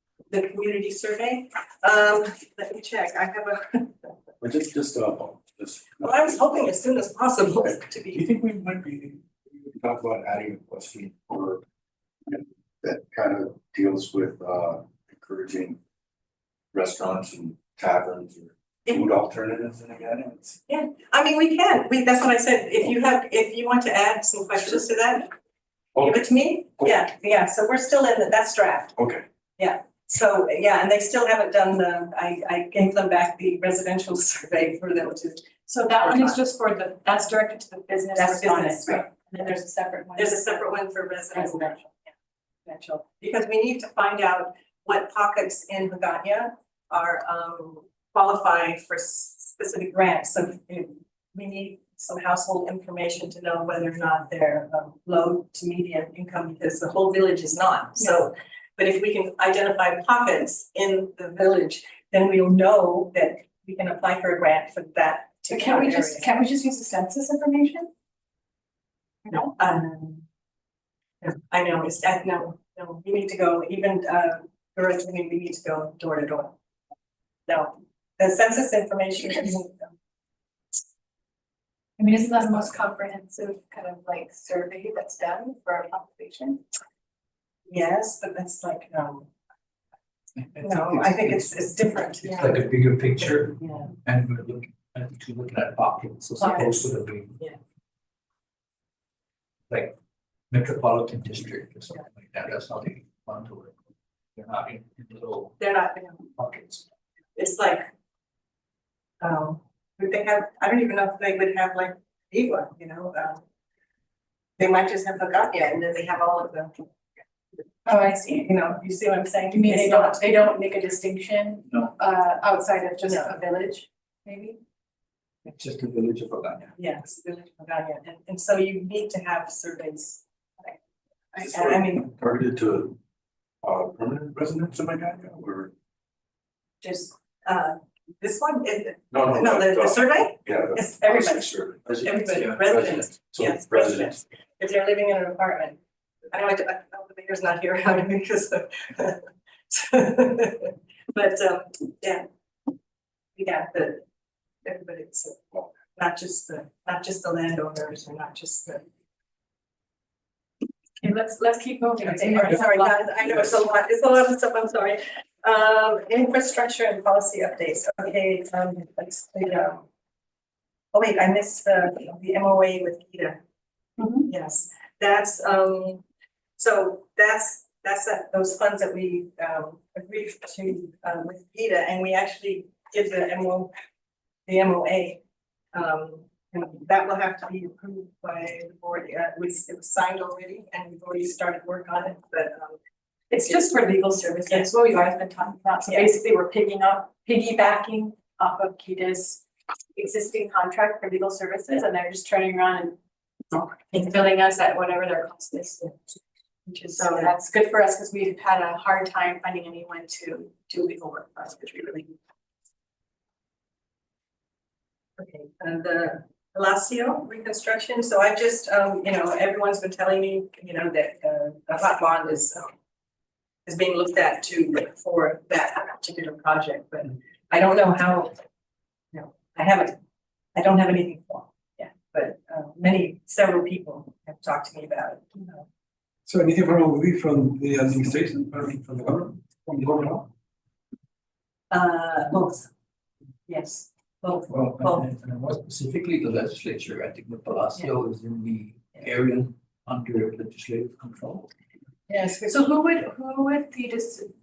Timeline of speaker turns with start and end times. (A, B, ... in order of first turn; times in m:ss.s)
0:00.3-0:04.1 A
0:04.4-0:06.5 B
0:06.0-0:08.2 A
0:07.6-0:11.6 B
0:12.3-0:15.8 B
0:16.7-0:20.6 B
0:20.7-0:25.3 A
0:25.9-0:26.2 B
0:26.0-0:28.9 A
0:29.0-0:29.2 B
0:29.6-0:36.4 A
0:35.6-0:41.9 C
0:38.1-0:39.1 A
0:40.2-0:41.8 A
0:42.6-1:06.3 A
1:05.5-1:07.9 C
1:09.3-1:10.2 A
1:11.2-1:16.6 A
1:17.5-1:19.9 A
1:22.0-1:26.6 C
1:27.7-1:29.3 A
1:30.4-1:37.4 D
1:30.6-1:32.7 A
1:33.2-1:33.9 A
1:36.4-1:37.6 A
1:39.7-1:39.9 D
1:40.5-1:43.8 D
1:44.4-1:45.6 D
1:45.6-1:46.3 A
1:46.4-1:46.8 D
1:47.3-1:47.9 A
1:49.2-1:53.4 A
1:54.6-1:56.8 A
1:57.8-1:58.6 C
1:58.4-2:00.4 A
1:59.5-2:04.6 C
2:01.7-2:02.0 D
2:03.0-2:03.4 A
2:05.4-2:06.7 D
2:06.8-2:10.8 A
2:11.3-2:12.1 A
2:11.4-2:13.0 B
2:13.6-2:15.7 B
2:16.8-2:25.8 A
2:19.1-2:22.1 B
2:21.8-2:23.0 D
2:22.6-2:24.2 B
2:26.3-2:32.3 A
2:33.3-2:34.0 A
2:34.6-2:38.9 A
2:41.0-2:43.1 C
2:42.0-2:49.8 A
2:50.9-2:53.4 A
2:54.0-2:54.3 C
2:54.2-2:56.0 A
2:56.6-3:03.7 A
3:04.4-3:05.2 A
3:05.7-3:12.8 A
3:13.3-3:19.4 C
3:20.0-3:23.0 C
3:23.9-3:25.9 C
3:26.7-3:27.3 A
3:26.7-3:32.1 C
3:35.2-3:42.7 A
3:43.6-3:48.4 A
3:49.1-3:50.0 A
3:50.5-3:55.6 A
3:56.3-4:00.3 E
4:01.7-4:02.7 A
4:03.5-4:05.0 A
4:04.5-4:11.5 D
4:12.1-4:12.5 A
4:12.3-4:14.3 C